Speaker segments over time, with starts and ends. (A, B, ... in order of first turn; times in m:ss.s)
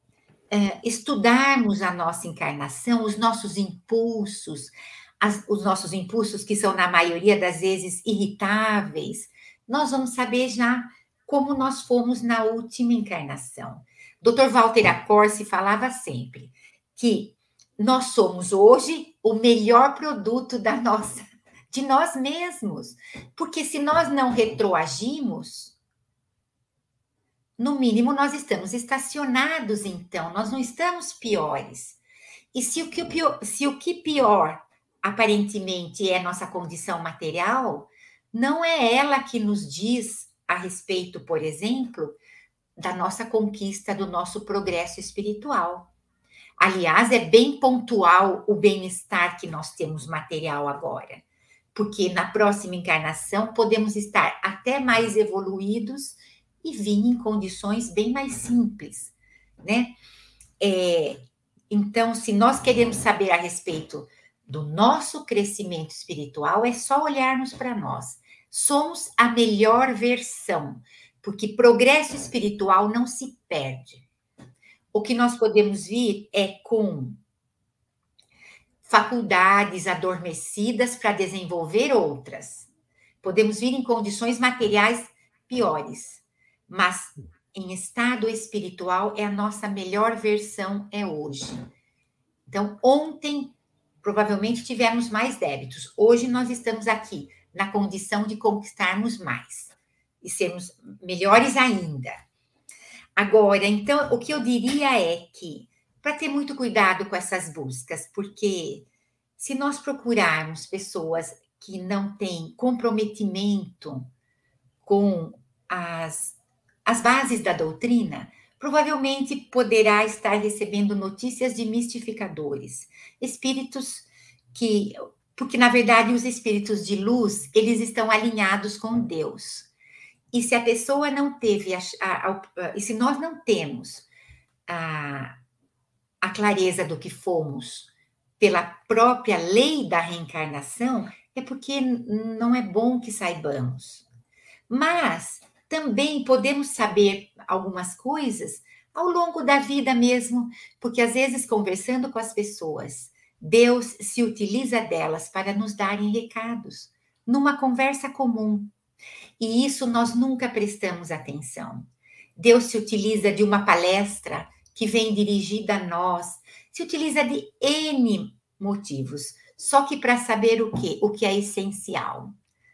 0:00.5-0:25.8 A
0:27.6-0:32.0 A
0:32.5-0:42.2 A
0:42.8-0:45.9 A
0:46.6-0:51.2 A
0:51.8-1:00.0 A
1:00.6-1:14.0 A
1:14.9-1:17.2 A
1:18.8-1:22.7 A
1:23.2-1:31.7 A
1:32.5-1:42.2 A
1:43.2-1:48.8 A
1:49.4-1:54.1 A
1:54.8-2:09.7 A
2:10.3-2:14.1 A
2:14.7-2:15.4 A
2:16.2-2:24.1 A
2:24.7-2:38.7 A
2:39.4-2:52.4 A